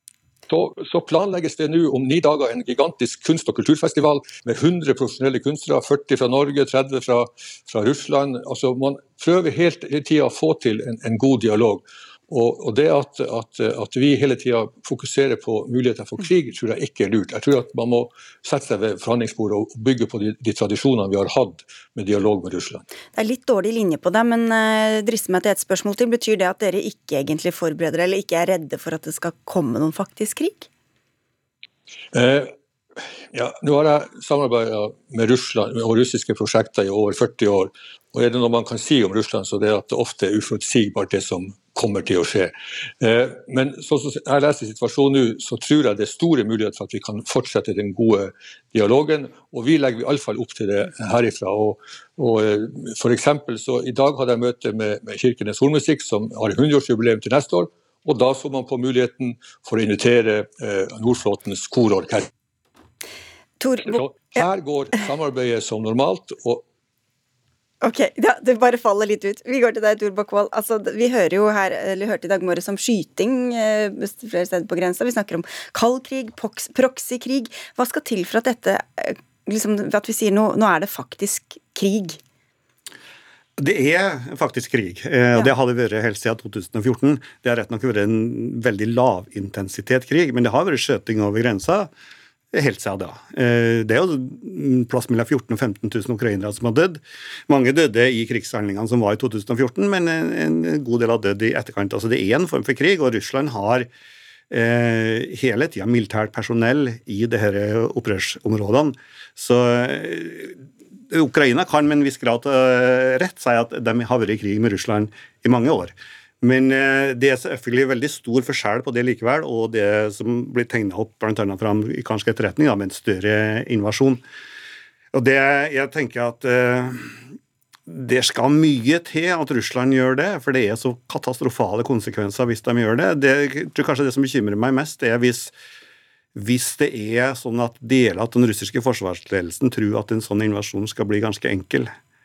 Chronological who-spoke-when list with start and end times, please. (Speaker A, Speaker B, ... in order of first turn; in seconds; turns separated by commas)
Speaker A: 0.5-22.8, Speaker B: 23.1-30.7, Speaker A: 32.1-32.5, Speaker A: 33.3-62.3, Speaker B: 63.6-64.0, Speaker A: 63.8-66.6, Speaker B: 67.8-82.2, Speaker C: 83.6-91.9, Speaker C: 92.5-103.9, Speaker C: 104.5-124.2, Speaker C: 125.1-127.2, Speaker C: 127.9-135.5, Speaker C: 136.3-141.9